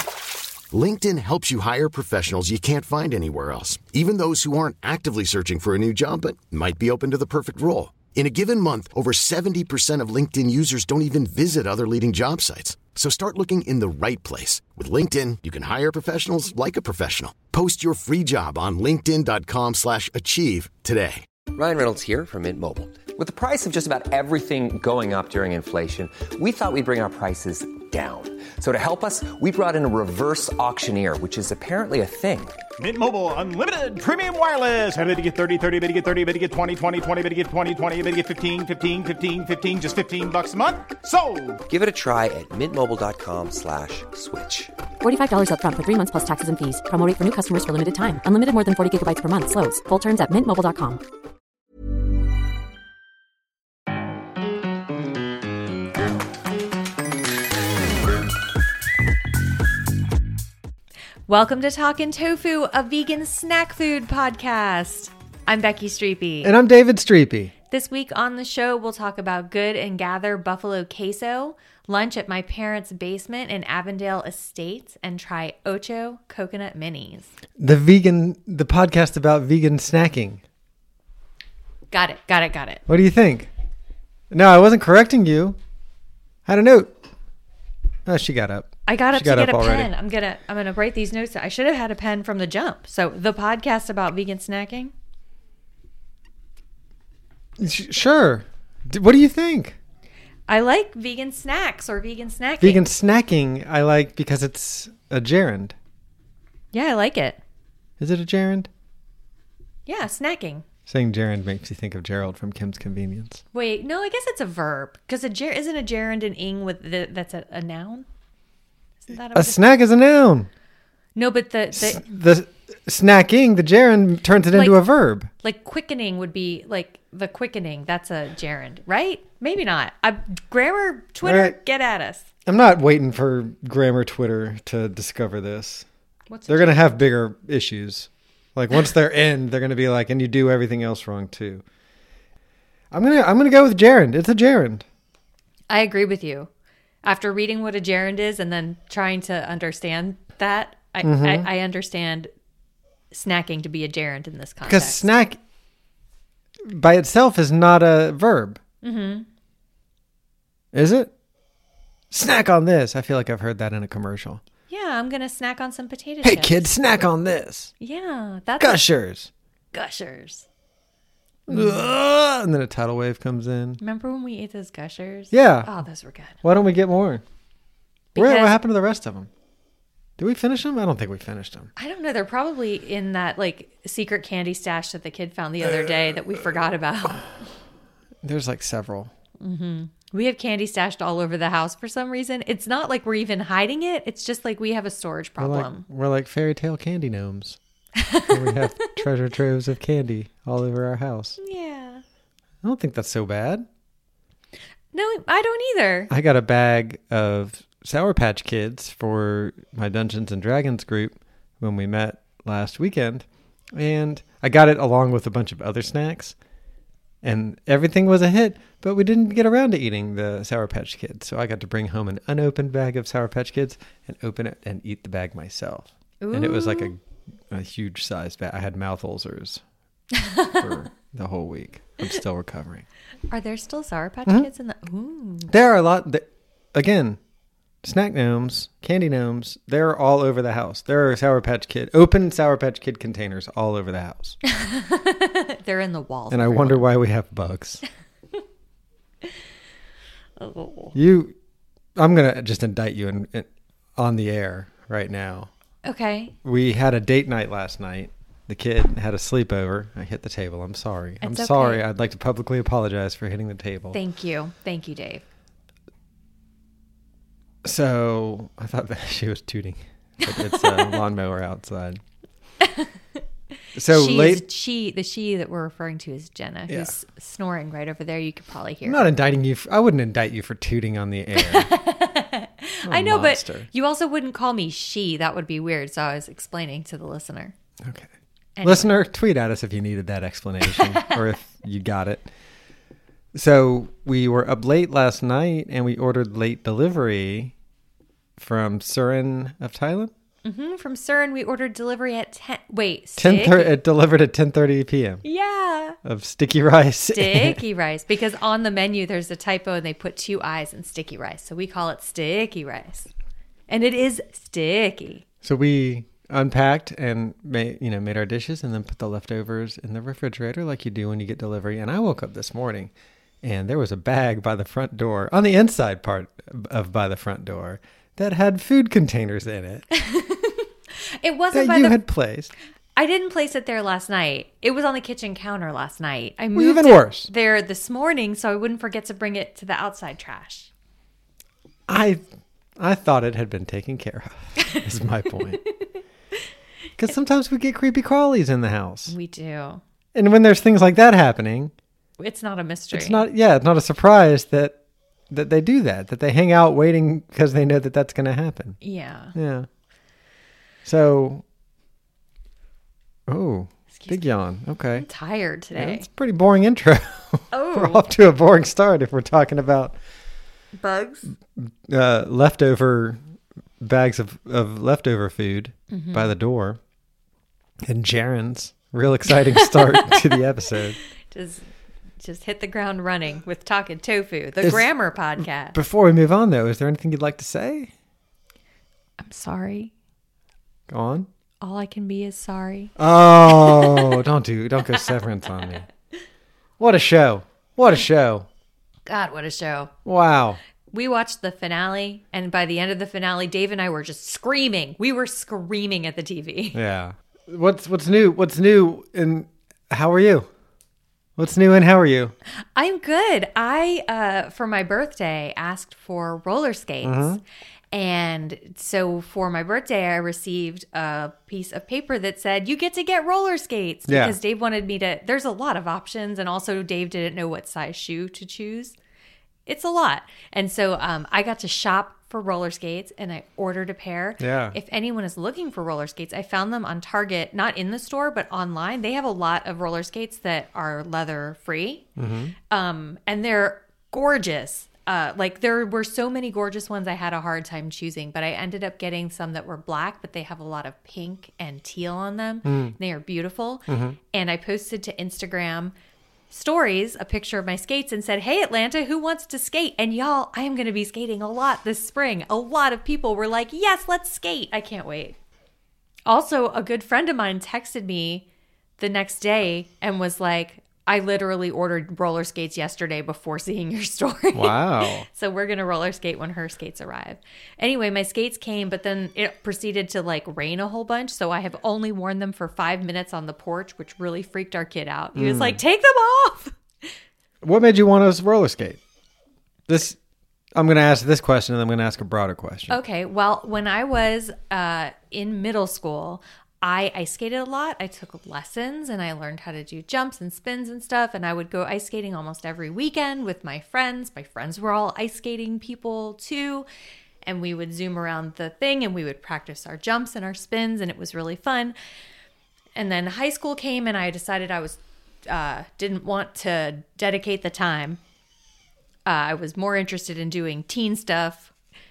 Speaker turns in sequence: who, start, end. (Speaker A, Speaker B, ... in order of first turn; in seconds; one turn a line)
Speaker A: 0.7-21.3
Speaker B: 21.5-32.6
Speaker C: 32.8-41.6
Speaker B: 41.7-44.7
Speaker D: 45.0-51.0
Speaker E: 61.3-66.5
Speaker F: 66.4-67.5
Speaker E: 67.7-77.3
Speaker F: 77.6-80.4
Speaker E: 81.9-82.8
Speaker F: 82.9-83.5
Speaker F: 84.3-85.6
Speaker F: 86.5-86.9
Speaker F: 88.1-89.9
Speaker E: 88.9-94.9
Speaker F: 97.6-99.8
Speaker E: 100.5-102.8
Speaker F: 102.6-105.8
Speaker E: 106.7-107.4
Speaker F: 108.0-108.7
Speaker E: 109.9-110.6
Speaker F: 110.9-113.4
Speaker E: 113.5-118.1
Speaker E: 119.1-119.6
Speaker F: 119.3-120.5
Speaker E: 121.2-122.0
Speaker F: 121.7-125.3
Speaker E: 125.4-132.3
Speaker F: 131.2-131.6
Speaker F: 132.5-135.9
Speaker E: 136.3-136.9
Speaker F: 136.5-141.6
Speaker F: 142.9-144.8
Speaker E: 145.7-146.5
Speaker E: 147.0-152.3
Speaker F: 151.0-151.5
Speaker E: 153.1-155.1
Speaker F: 154.7-155.4
Speaker F: 156.7-158.6
Speaker E: 158.8-159.3
Speaker F: 160.7-161.1
Speaker F: 162.1-164.4
Speaker E: 164.7-166.7
Speaker F: 166.2-167.7
Speaker E: 167.8-168.8
Speaker F: 168.6-169.3
Speaker E: 169.7-170.5
Speaker F: 171.5-173.8
Speaker E: 171.5-171.9
Speaker E: 173.8-176.4
Speaker F: 175.3-175.7
Speaker F: 176.4-177.2
Speaker E: 178.2-178.6
Speaker F: 178.2-179.3
Speaker F: 180.2-181.7
Speaker E: 181.8-187.3
Speaker F: 188.2-189.1
Speaker E: 189.4-195.8
Speaker F: 195.4-197.6
Speaker E: 198.0-199.0
Speaker F: 198.3-201.4
Speaker E: 201.4-202.0
Speaker F: 202.6-203.7
Speaker E: 204.9-206.1
Speaker F: 206.1-216.4
Speaker F: 217.2-227.0
Speaker E: 226.2-226.9
Speaker F: 227.5-229.6
Speaker E: 230.2-230.6
Speaker F: 230.6-232.8
Speaker E: 233.3-235.5
Speaker F: 235.5-237.2
Speaker F: 237.8-244.4
Speaker E: 244.5-246.8
Speaker F: 246.3-247.8
Speaker E: 250.4-251.0
Speaker F: 250.9-251.3
Speaker F: 252.0-255.5
Speaker E: 255.8-256.4
Speaker F: 256.4-264.0
Speaker E: 261.2-261.8
Speaker E: 263.9-265.2
Speaker F: 267.6-272.0
Speaker E: 270.2-271.0
Speaker E: 272.6-272.9
Speaker F: 273.8-274.4
Speaker E: 273.9-279.1
Speaker F: 278.9-281.7
Speaker E: 281.4-287.5
Speaker F: 282.9-283.7
Speaker F: 287.8-288.1
Speaker E: 288.6-289.0
Speaker F: 288.6-292.3
Speaker E: 290.7-291.2
Speaker F: 293.3-297.5
Speaker F: 298.4-300.1
Speaker E: 300.4-303.8
Speaker F: 303.2-305.2
Speaker E: 305.2-306.0
Speaker F: 306.1-307.6
Speaker E: 307.1-313.1
Speaker E: 313.7-315.2
Speaker F: 315.4-322.9
Speaker F: 323.4-329.9
Speaker E: 329.9-332.0
Speaker F: 331.5-332.5
Speaker E: 333.0-340.7
Speaker F: 336.6-337.3
Speaker F: 341.9-342.2
Speaker F: 342.8-345.6
Speaker F: 347.0-349.1
Speaker E: 349.1-349.8
Speaker F: 350.1-351.7
Speaker E: 352.2-353.2
Speaker F: 352.9-354.8
Speaker F: 355.3-358.8
Speaker E: 358.8-359.3
Speaker F: 359.3-359.7
Speaker F: 360.9-361.4
Speaker F: 363.3-365.1
Speaker E: 363.9-364.2
Speaker E: 365.0-366.1
Speaker F: 365.8-370.0
Speaker E: 367.5-368.1
Speaker E: 370.8-371.3
Speaker F: 371.6-373.2
Speaker F: 373.8-376.8
Speaker E: 375.9-376.3
Speaker F: 377.8-381.0
Speaker E: 379.4-380.4
Speaker E: 381.3-381.6
Speaker E: 382.2-385.8
Speaker F: 384.6-384.9
Speaker F: 385.4-387.9
Speaker E: 389.2-389.9
Speaker F: 390.9-391.3
Speaker E: 391.6-392.9
Speaker F: 393.0-395.9
Speaker E: 393.5-394.2
Speaker F: 396.8-398.5
Speaker E: 399.1-399.9
Speaker F: 400.1-400.6
Speaker E: 400.9-406.8
Speaker F: 406.7-410.5
Speaker F: 411.4-412.4
Speaker E: 412.8-417.4
Speaker F: 417.0-417.4
Speaker E: 417.9-429.0
Speaker F: 424.1-424.4
Speaker E: 429.7-442.1
Speaker F: 434.4-434.8
Speaker F: 442.2-442.5
Speaker E: 442.7-455.9
Speaker F: 452.6-452.9
Speaker F: 453.9-454.2
Speaker E: 456.5-465.4
Speaker E: 466.3-468.5
Speaker E: 469.0-486.8
Speaker F: 474.5-475.3
Speaker F: 485.4-485.8
Speaker F: 487.6-489.0
Speaker F: 489.9-490.2
Speaker F: 490.8-493.0
Speaker E: 492.9-506.9
Speaker E: 507.4-512.0
Speaker E: 513.0-518.2
Speaker E: 519.3-521.7